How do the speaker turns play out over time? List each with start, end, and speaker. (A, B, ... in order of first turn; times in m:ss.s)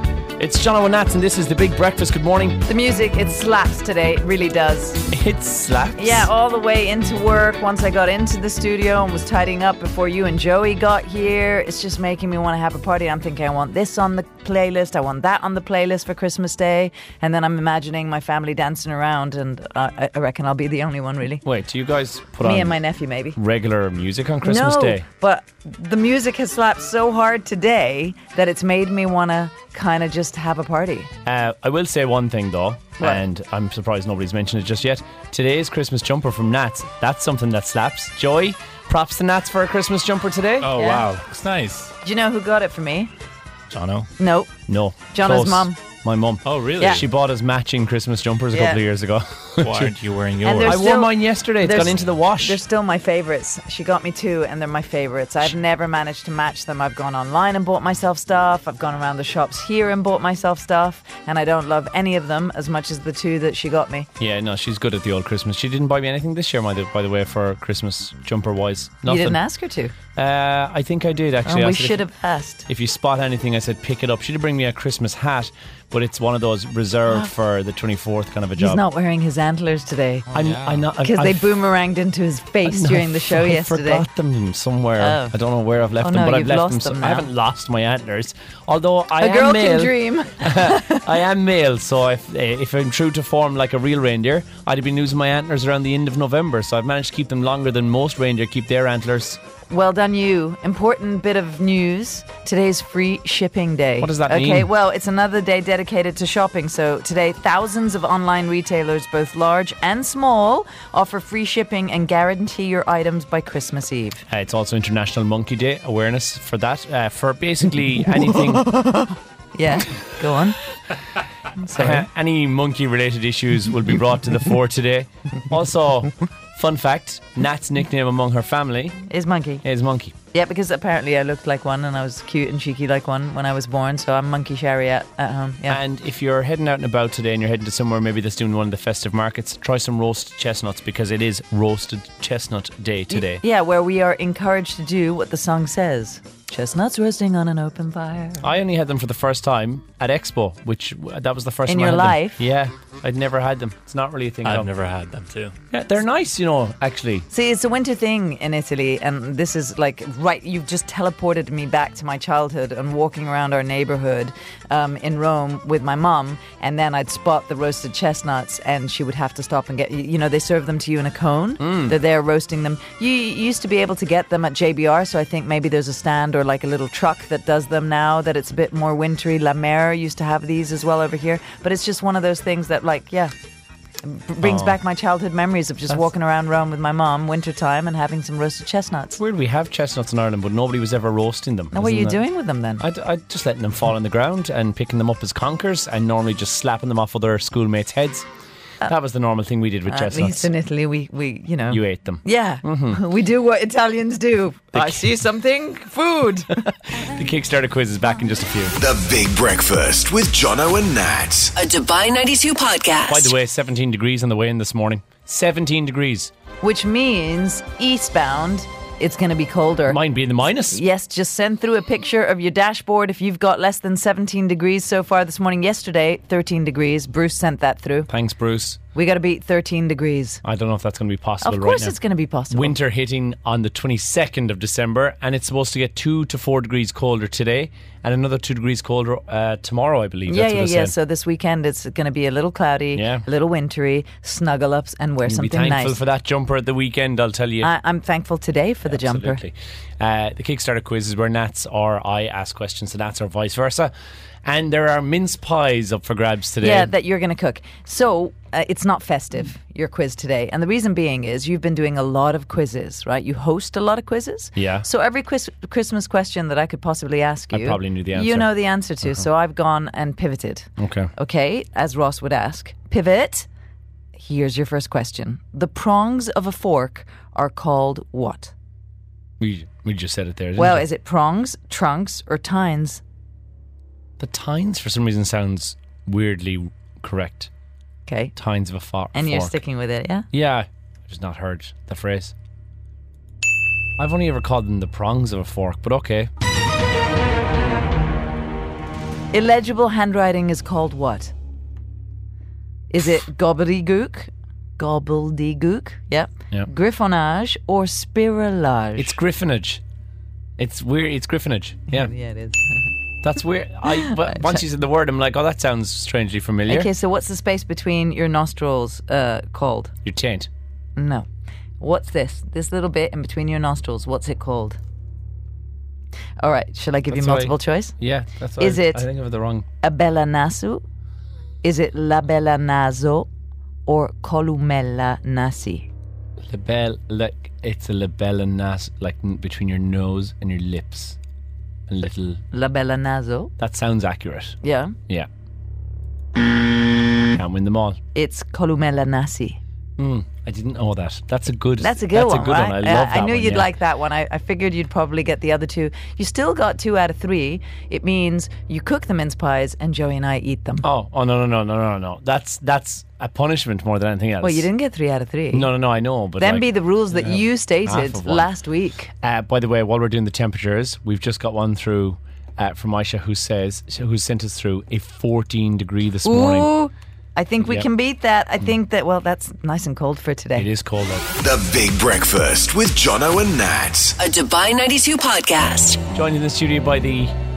0:00.4-0:02.6 A
0:02.6-0:05.1 B
0:05.1-0:06.3 A
0:06.0-0:21.4 B
0:21.4-0:22.8 A
0:22.4-0:23.4 B
0:23.3-0:25.1 A
0:24.4-0:31.1 B
0:31.2-0:40.9 A
0:33.0-0:33.2 B
0:40.6-0:41.9 C
0:40.8-0:41.0 B
0:42.0-0:43.1 B
0:43.7-0:44.1 C
0:44.2-0:44.5 B
0:44.7-0:49.9 A
0:45.1-0:45.8 B
0:46.4-0:47.0 C
0:48.5-0:48.8 B
0:49.6-0:50.9 C
0:50.4-1:04.1 B
0:50.6-0:52.6 A
1:04.2-1:09.4 A
1:09.0-1:09.9 B
1:10.1-1:12.0 A
1:11.4-1:12.7 B
1:12.7-1:18.8 A
1:18.6-1:20.3 B
1:20.3-1:20.9 C
1:20.3-1:21.5 A
1:21.0-1:24.0 B
1:22.6-1:39.4 A
1:25.0-1:25.3 B
1:26.0-1:27.3 B
1:29.2-1:31.1 B
1:39.7-1:54.2 B
1:44.0-1:44.7 A
1:54.3-1:58.7 A
1:58.5-2:00.6 B
2:01.6-2:02.0 B
2:01.7-2:09.0 A
2:09.0-2:09.6 B
2:09.6-2:10.2 A
2:10.3-2:15.8 B
2:15.7-2:23.4 A
2:23.1-2:28.5 B
2:28.4-2:34.7 A
2:31.6-2:32.4 B
2:34.4-2:35.5 C
2:35.7-2:37.3 A
2:37.3-3:03.3 B
2:51.6-2:52.0 A
3:04.0-3:09.2 B
3:04.4-3:04.8 A
3:09.2-3:12.2 A
3:11.7-3:12.8 B
3:12.8-3:18.2 A
3:18.8-3:20.5 A
3:19.9-3:26.7 B
3:21.7-3:23.0 A
3:24.7-3:25.1 A
3:26.5-3:28.8 A
3:28.8-3:31.5 D
3:31.6-3:33.3 E
3:33.1-3:36.3 A
3:36.6-3:40.0 B
3:39.8-3:40.8 A
3:40.7-3:48.1 B
3:48.1-3:48.8 A
3:48.9-3:50.4 B
3:50.4-3:52.0 A
3:51.4-3:52.8 B
3:52.5-4:00.9 A
4:00.3-4:06.0 B
4:02.9-4:03.2 A
4:05.2-4:07.7 A
4:07.6-4:09.4 B
4:08.8-4:13.9 A
4:14.4-4:16.9 A
4:16.6-4:33.5 B
4:24.6-4:24.9 A
4:27.5-4:28.5 A
4:30.8-4:31.1 A
4:34.2-4:38.5 B
4:39.4-4:40.8 A
4:40.6-4:43.0 B
4:44.2-4:47.5 A
4:48.1-4:48.3 B
4:48.4-4:49.6 A
4:49.1-4:50.3 B
4:50.3-4:52.3 A
4:54.0-4:56.3 A
4:59.3-5:01.3 B
5:02.9-5:09.2 B
5:09.0-5:09.8 A
5:10.6-5:12.1 A
5:11.9-5:12.9 B
5:13.2-5:16.9 A
5:13.9-5:14.6 B
5:16.7-5:19.9 B
5:20.0-5:20.5 A
5:21.0-5:21.3 B
5:21.8-5:24.8 B
5:26.4-5:28.0 B
5:27.1-5:29.6 A
5:28.6-5:29.0 B
5:29.8-5:30.8 B
5:31.6-5:33.3 B
5:33.8-5:35.9 B
5:36.4-5:41.2 A
5:41.9-5:42.4 A
5:42.5-5:43.5 B
5:43.6-5:45.3 A
5:44.6-5:44.9 B
5:47.3-5:48.0 A
5:48.1-5:49.6 B
5:50.0-5:53.7 A
5:51.8-6:00.9 B
6:00.8-6:04.7 A
6:04.4-6:05.7 B
6:05.5-6:08.5 A
6:06.4-6:09.1 B
6:09.2-6:16.7 A
6:16.2-6:20.7 B
6:17.6-6:17.9 A
6:20.5-6:21.3 A
6:21.4-6:24.2 D
6:24.2-6:26.0 E
6:26.1-6:27.3 A